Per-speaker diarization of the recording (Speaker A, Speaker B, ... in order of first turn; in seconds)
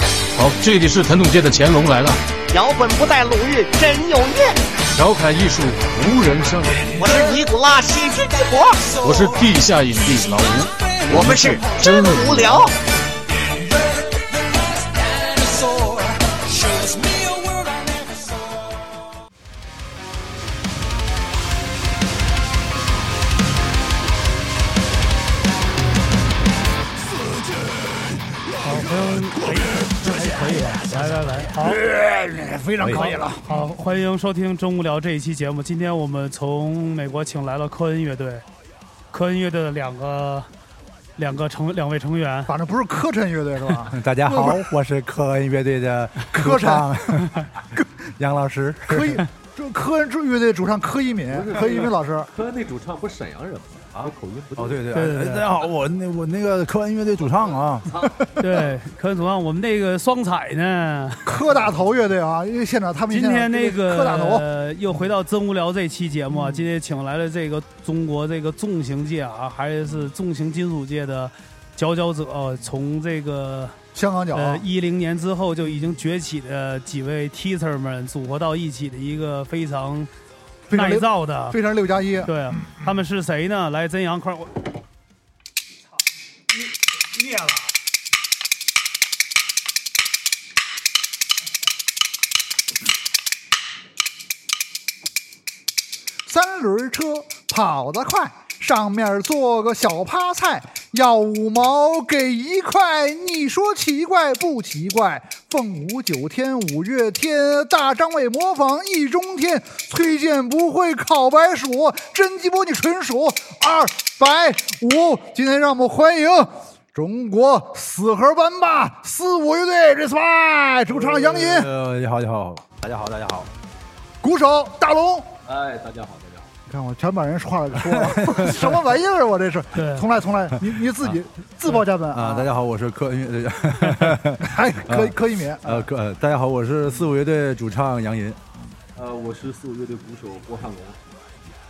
Speaker A: 0.3-2.2, 4.9-7.1, 9.0-12.7
Speaker B: 2.5-4.6, 7.0-9.3, 11.1-12.7
Speaker C: 28.6-31.8, 32.9-38.4, 39.1-40.5, 41.2-42.5, 54.9-55.5, 58.4-61.3, 63.1-73.8, 74.3-80.1, 80.7-81.6, 82.2-84.6, 87.1-87.7, 129.7-130.1
Speaker D: 29.9-33.7, 42.5-44.6, 46.3-46.9, 48.9-52.3, 61.2-64.5, 66.3-66.7, 73.9-74.7, 80.7-82.8, 96.2-121.7, 124.2-125.3, 126.7-132.5, 134.3-135.9
Speaker E: 32.8-33.2, 43.9-49.2, 53.9-57.9, 120.9-123.5, 127.8-128.7, 132.1-138.4
Speaker F: 51.3-54.8, 57.8-58.1, 125.5-126.5, 138.9-141.0